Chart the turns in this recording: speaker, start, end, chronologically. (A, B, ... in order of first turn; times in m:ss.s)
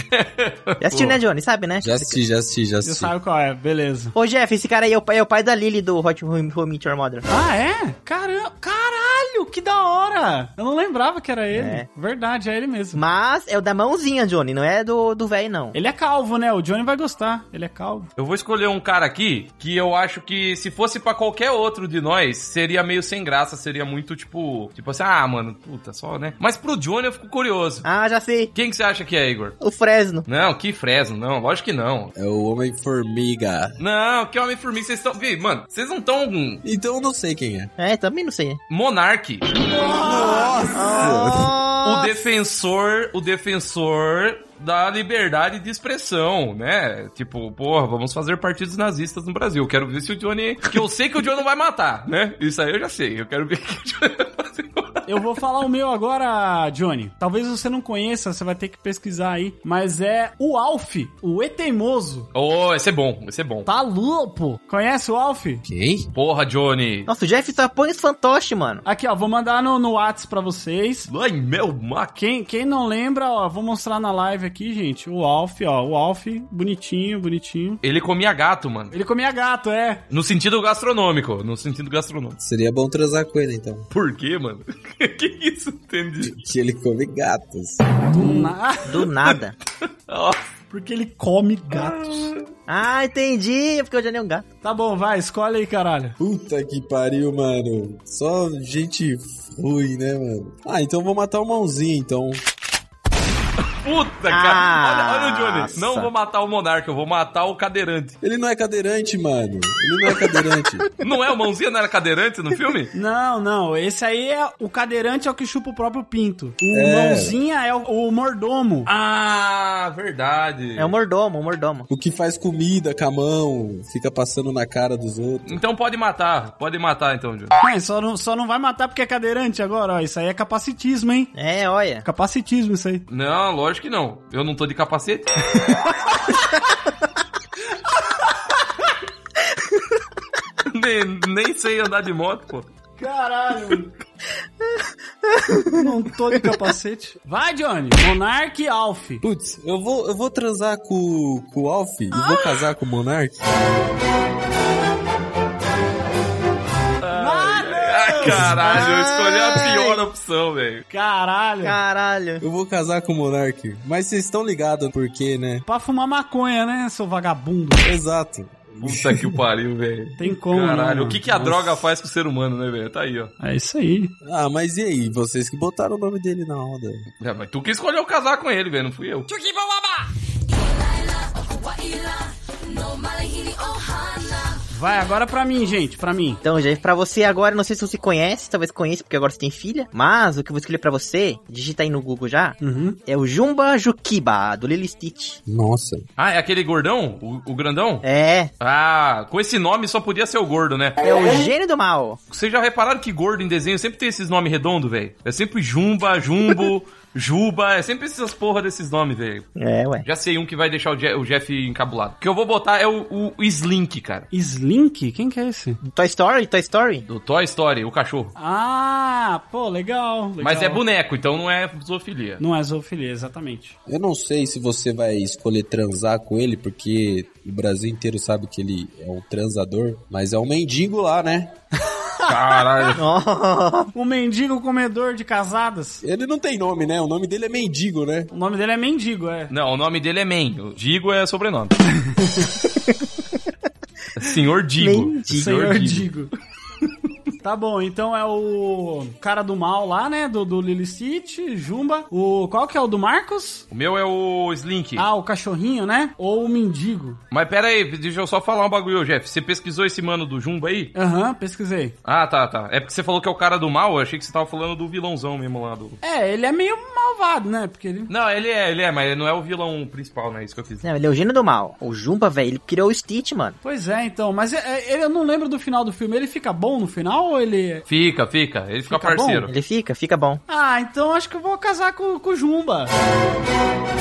0:00.1-0:01.2 A
0:00.8-0:02.2 B
0:01.8-0:03.1 C
0:02.8-0:04.1 D
0:04.1-0:07.2 B
0:07.3-0:13.0 D
0:11.5-0:11.8 B
0:12.9-0:15.7 B
0:15.7-0:18.1 D
0:18.2-0:27.9 A
0:27.8-0:28.5 B
0:28.5-0:29.6 A
0:29.6-0:30.2 B
0:30.2-0:32.1 A
0:32.1-0:33.8 C
0:33.8-0:36.6 A
0:36.6-0:37.7 C
0:37.8-0:38.6 B
0:38.7-0:39.5 A
0:39.6-0:40.7 D
0:39.9-0:41.5 C
0:40.1-0:42.2 B
0:41.8-0:55.0 A
0:55.1-1:02.3 D
1:02.3-1:03.7 A
1:03.6-1:05.6 D
1:05.6-1:06.1 C
1:06.1-1:07.1 A
1:07.1-1:08.8 B
1:08.8-1:11.1 D
1:11.1-1:12.1 A
1:12.1-1:17.8 D
1:17.8-1:18.9 A
1:18.9-1:20.0 D
1:20.1-1:22.4 A
1:22.4-1:23.9 C
1:23.9-1:26.4 A
1:26.2-1:28.0 C
1:28.1-1:29.1 D
1:28.8-1:29.5 B
1:30.1-1:30.4 A
1:30.7-1:32.3 D
1:31.7-1:32.4 A
1:32.7-1:34.4 B
1:34.6-1:36.2 D
1:36.2-1:42.4 C
1:43.8-1:48.2 A
1:44.3-1:46.1 B
1:48.2-1:50.9 C
1:51.0-1:52.9 A
1:52.9-1:58.9 D
1:56.7-1:57.4 C
1:58.8-2:00.9 A
2:00.8-2:01.9 B
2:01.9-2:05.6 C
2:05.4-2:07.6 A
2:07.6-2:11.3 D
2:11.3-2:12.0 B
2:12.0-2:13.0 D
2:13.1-2:15.6 A
2:20.6-2:22.7 A
2:23.0-2:23.9 D
2:24.6-2:25.9 B
2:25.7-2:29.2 D
2:29.2-2:33.4 C
2:37.0-2:40.8 A
2:37.1-2:38.6 D
2:38.5-2:40.0 B
2:40.9-2:41.8 D
2:41.6-2:42.4 B
2:42.4-2:45.6 C
2:45.6-2:47.9 D
2:47.8-2:49.4 C
2:48.8-2:53.3 A
2:50.2-2:51.8 D
2:53.4-2:54.1 D
2:54.2-2:57.0 C
2:57.2-2:59.5 A
3:04.7-3:06.4 D
3:06.4-3:15.4 B
3:12.6-3:13.0 D
3:15.4-3:16.0 C
3:16.2-3:18.0 A
3:18.0-3:18.5 B
3:18.6-3:21.0 A
3:21.0-3:22.2 B
3:22.3-3:29.5 A
3:29.6-3:30.0 B
3:30.0-3:34.3 A
3:34.3-3:35.8 D
3:35.8-3:37.0 B
3:37.1-3:38.3 A
3:38.4-3:40.8 D
3:40.4-3:42.4 A
3:42.4-3:43.8 D
3:43.9-3:51.5 C
3:52.0-3:52.4 D
3:52.2-3:53.0 A
3:52.9-3:53.9 B
3:53.9-3:56.0 D
3:56.0-3:58.3 C
3:58.3-3:59.5 D
3:59.5-4:01.8 A
4:02.0-4:02.6 D
4:04.2-4:06.1 A
4:04.8-4:05.6 B
4:05.3-4:06.3 D
4:07.4-4:13.6 D
4:13.7-4:15.1 A
4:15.0-4:17.2 D
4:17.3-4:20.9 A
4:20.9-4:21.9 D
4:22.0-4:26.0 A
4:26.0-4:28.1 D
4:28.1-4:30.8 A
4:30.8-4:33.6 B
4:33.6-4:37.8 D
4:37.9-4:39.5 A
4:38.9-4:39.5 D
4:39.5-4:40.4 B
4:40.5-4:42.9 D